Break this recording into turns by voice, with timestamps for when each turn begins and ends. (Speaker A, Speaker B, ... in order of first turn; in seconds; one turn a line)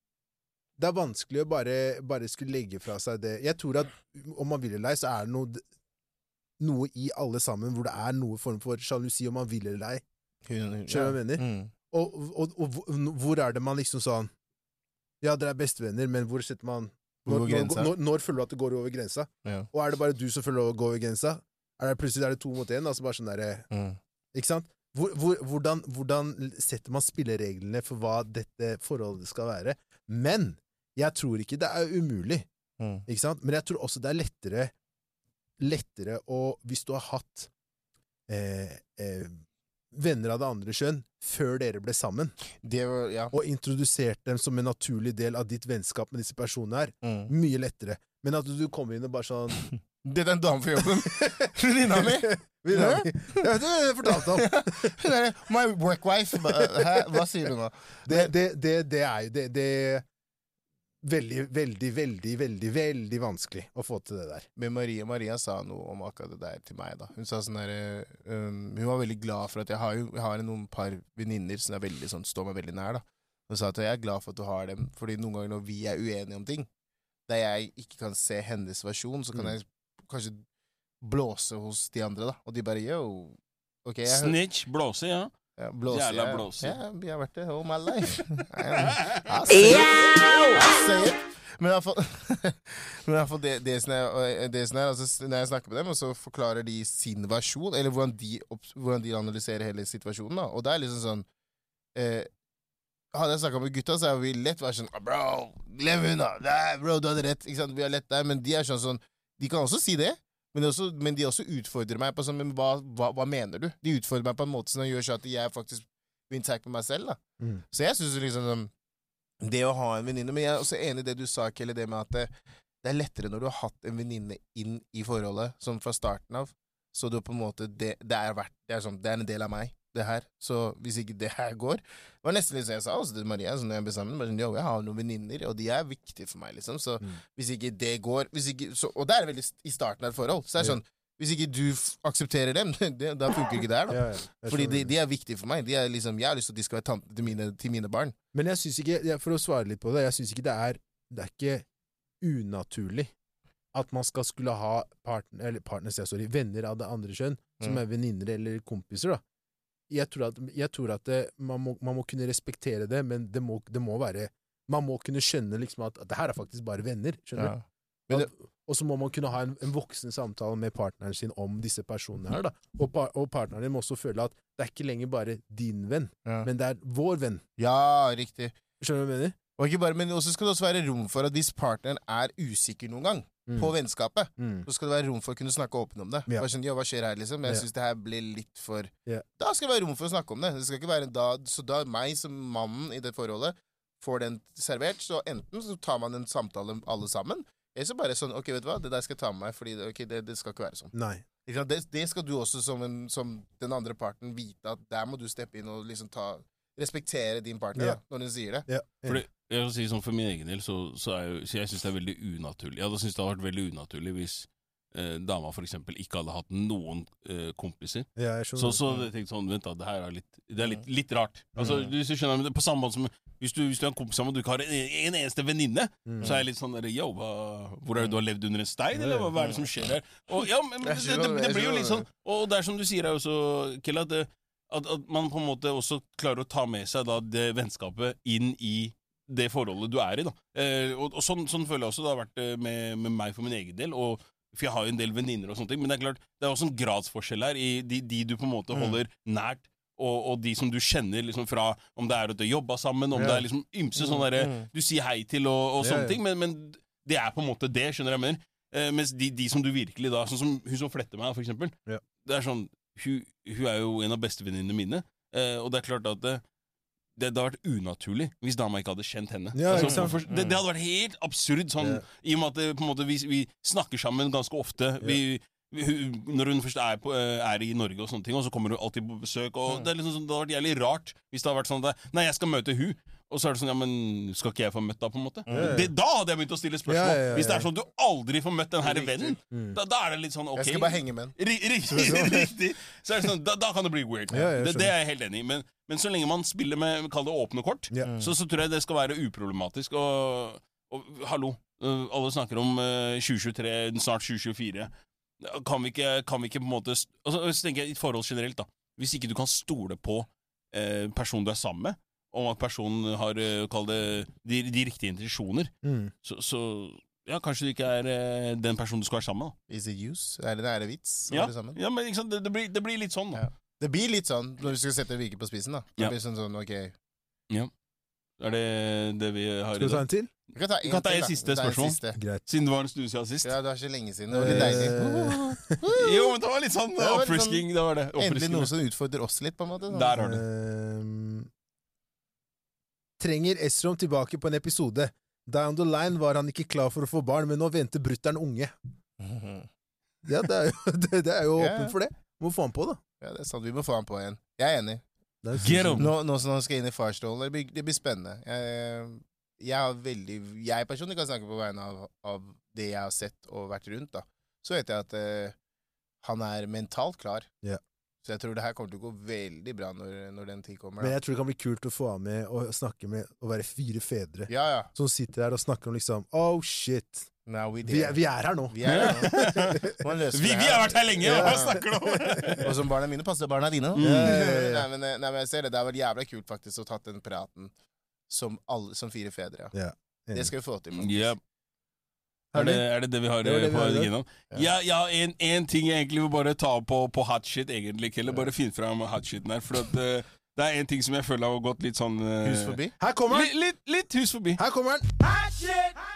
Speaker A: 0.8-5.6
Speaker A: 6.6-10.0
Speaker B: 10.4-11.7
Speaker A: 10.9-14.3
Speaker A: 15.2-23.7
Speaker B: 17.2-17.9
Speaker B: 23.7-24.0
Speaker A: 24.3-32.5
Speaker B: 32.8-33.0
Speaker A: 33.1-34.7
Speaker A: 35.6-37.5
Speaker A: 38.3-39.4
Speaker A: 39.9-42.4
Speaker B: 42.6-43.3
Speaker A: 43.3-49.7
Speaker B: 47.0-47.3
Speaker B: 50.0-53.5
Speaker A: 51.0-55.0
Speaker B: 54.0-58.3
Speaker A: 56.5-56.9
Speaker A: 58.1-60.0
Speaker A: 61.0-64.5
Speaker B: 64.6-76.7
Speaker B: 77.3-80.4
Speaker B: 81.0-84.3
Speaker C: 84.1-85.3
Speaker B: 85.6-101.2
Speaker C: 85.9-86.8
Speaker C: 88.8-90.5
Speaker B: 101.9-102.3
Speaker B: 103.1-117.2
Speaker B: 117.7-118.7
Speaker B: 119.4-122.3
Speaker B: 122.8-148.2
Speaker A: 143.9-144.9
Speaker A: 148.3-151.7
Speaker A: 152.2-153.1
Speaker A: 153.7-159.2
Speaker A: 159.9-167.5
Speaker B: 167.3-168.3
Speaker A: 168.1-177.4
Speaker B: 177.6-178.5
Speaker A: 178.8-179.3
Speaker B: 179.6-200.9
Speaker A: 183.5-183.7
Speaker A: 184.4-184.7
Speaker A: 200.9-201.2
Speaker B: 201.4-208.7
Speaker A: 208.7-209.2
Speaker C: 209.1-266.4
Speaker A: 218.2-219.0
Speaker A: 221.6-221.8
Speaker A: 226.1-226.3
Speaker A: 229.0-229.3
Speaker B: 230.8-232.1
Speaker A: 253.1-253.5
Speaker B: 254.0-254.7
Speaker A: 255.8-256.2
Speaker C: 267.2-304.9
Speaker A: 269.5-270.2
Speaker B: 269.8-270.6
Speaker A: 271.8-272.0
Speaker B: 285.5-285.8
Speaker A: 285.5-285.9
Speaker A: 286.9-287.7
Speaker B: 288.8-289.4
Speaker A: 289.5-289.8
Speaker B: 290.5-291.4
Speaker B: 291.9-292.5
Speaker A: 294.3-294.9
Speaker B: 298.0-298.3
Speaker C: 305.4-315.7
Speaker A: 315.8-316.1
Speaker C: 316.2-319.5
Speaker B: 319.7-321.8
Speaker C: 321.3-323.4
Speaker B: 323.4-326.9
Speaker C: 328.4-330.0
Speaker A: 329.8-330.3
Speaker B: 330.5-332.2
Speaker C: 330.8-333.5
Speaker A: 332.1-332.4
Speaker B: 333.4-336.4
Speaker A: 334.3-335.8
Speaker C: 334.5-334.9
Speaker C: 335.9-338.7
Speaker B: 337.0-340.2
Speaker C: 339.9-340.4
Speaker A: 340.2-341.5
Speaker A: 343.2-348.7
Speaker B: 349.2-349.7
Speaker A: 350.2-353.0
Speaker B: 351.6-351.9
Speaker B: 353.2-355.0
Speaker A: 355.4-356.1
Speaker C: 355.6-356.1
Speaker B: 356.0-365.5
Speaker B: 366.2-367.5
Speaker B: 368.2-371.1
Speaker A: 371.0-377.3
Speaker B: 374.5-374.9
Speaker B: 377.5-381.8
Speaker A: 377.9-380.0
Speaker C: 378.9-382.7
Speaker A: 381.2-382.6
Speaker B: 382.6-387.7
Speaker C: 383.9-384.4
Speaker A: 384.0-384.9
Speaker B: 388.3-389.7
Speaker A: 389.7-390.5
Speaker B: 390.3-391.3
Speaker C: 391.0-391.4
Speaker A: 392.5-392.9
Speaker C: 392.5-402.8
Speaker A: 393.4-394.1
Speaker B: 402.4-402.9
Speaker A: 403.0-403.5
Speaker C: 403.3-404.6
Speaker A: 404.6-405.1
Speaker C: 405.2-406.0